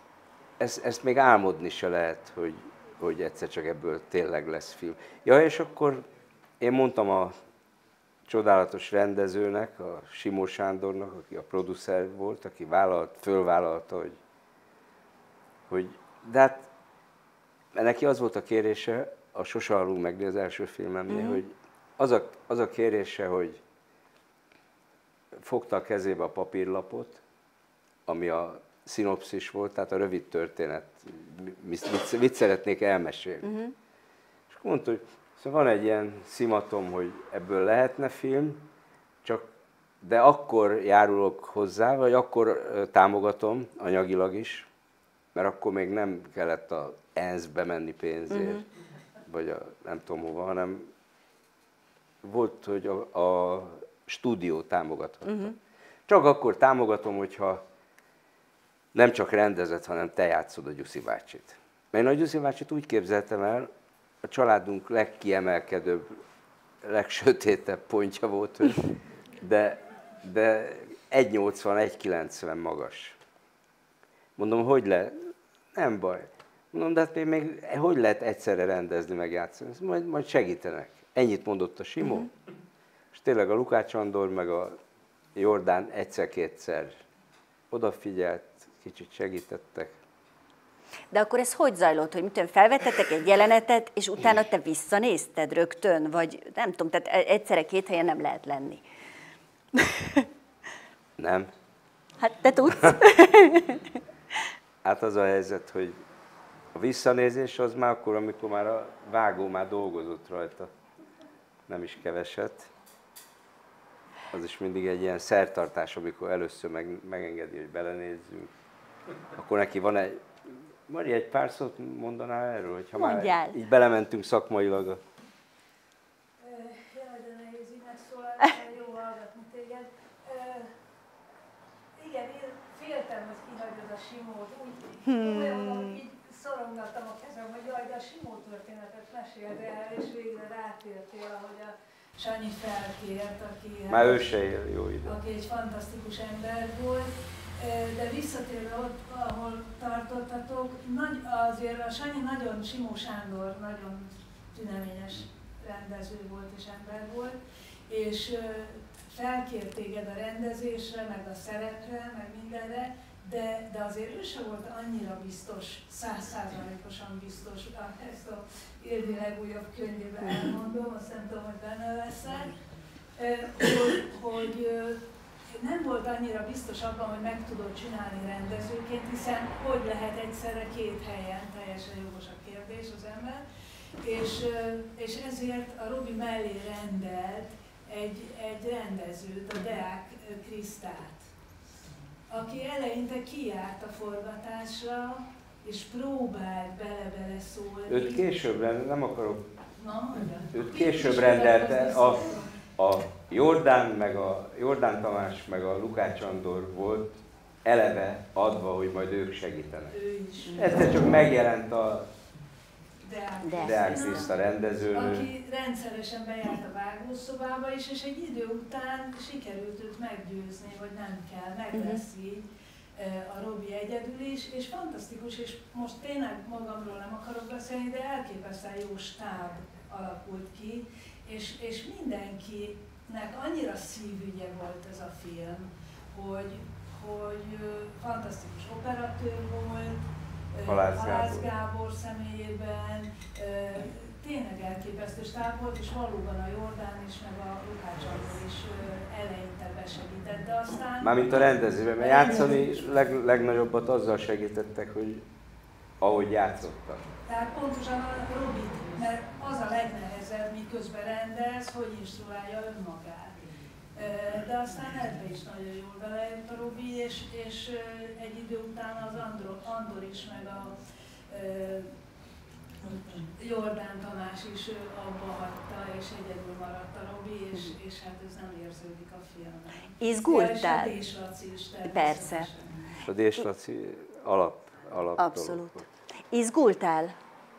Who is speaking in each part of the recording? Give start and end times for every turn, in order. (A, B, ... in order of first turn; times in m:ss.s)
0:00.6-0:06.1 A
0:06.6-0:07.3 A
0:08.3-0:14.2 A
0:15.7-0:16.7 A
0:17.7-0:23.6 A
0:21.1-0:21.4 B
0:25.4-0:27.2 A
0:28.1-0:33.5 A
0:33.4-0:33.7 B
0:34.5-0:38.7 A
0:39.2-0:39.5 A
0:40.0-0:44.7 A
0:45.4-0:48.6 A
0:48.3-0:48.6 B
0:49.3-0:50.9 A
0:52.2-0:55.6 A
0:55.2-0:55.5 B
0:56.1-0:57.6 A
0:58.9-1:03.7 A
1:04.2-1:06.2 A
1:06.8-1:13.2 A
1:14.4-1:22.3 A
1:22.0-1:22.3 B
1:23.1-1:24.8 A
1:25.4-1:27.0 A
1:27.7-1:30.0 A
1:31.1-1:38.8 B
1:39.8-1:40.3 B
1:41.2-1:41.5 A
1:42.2-1:43.9 B
1:44.8-1:46.0 A
1:46.7-1:50.7 A
1:51.7-1:52.7 A
1:54.3-1:58.5 A
1:59.4-2:05.0 A
2:03.0-2:03.6 B
2:06.4-2:10.8 C
2:12.0-2:24.3 C
2:15.0-2:16.0 B
2:23.9-2:25.2 A
2:25.0-2:52.6 C
2:53.2-3:03.4 C
3:04.0-3:11.3 C
3:12.3-3:18.5 C
3:17.9-3:19.5 A
3:19.8-3:22.6 C
3:20.5-3:29.9 A
3:29.9-3:30.8 C
3:30.5-3:30.8 B
3:30.6-3:32.1 A
3:33.0-4:13.1 C
3:33.4-3:34.0 B
3:33.6-3:35.3 A
3:41.7-3:42.0 B
4:00.6-4:01.5 A
4:11.0-4:15.2 A
4:16.0-4:17.1 A
4:17.3-4:23.4 C
4:24.0-4:30.8 C
4:31.3-4:31.9 C
4:32.8-4:42.9 C
4:40.0-4:41.0 B
4:41.9-4:42.5 B
4:43.0-4:45.8 A
4:45.2-4:47.2 B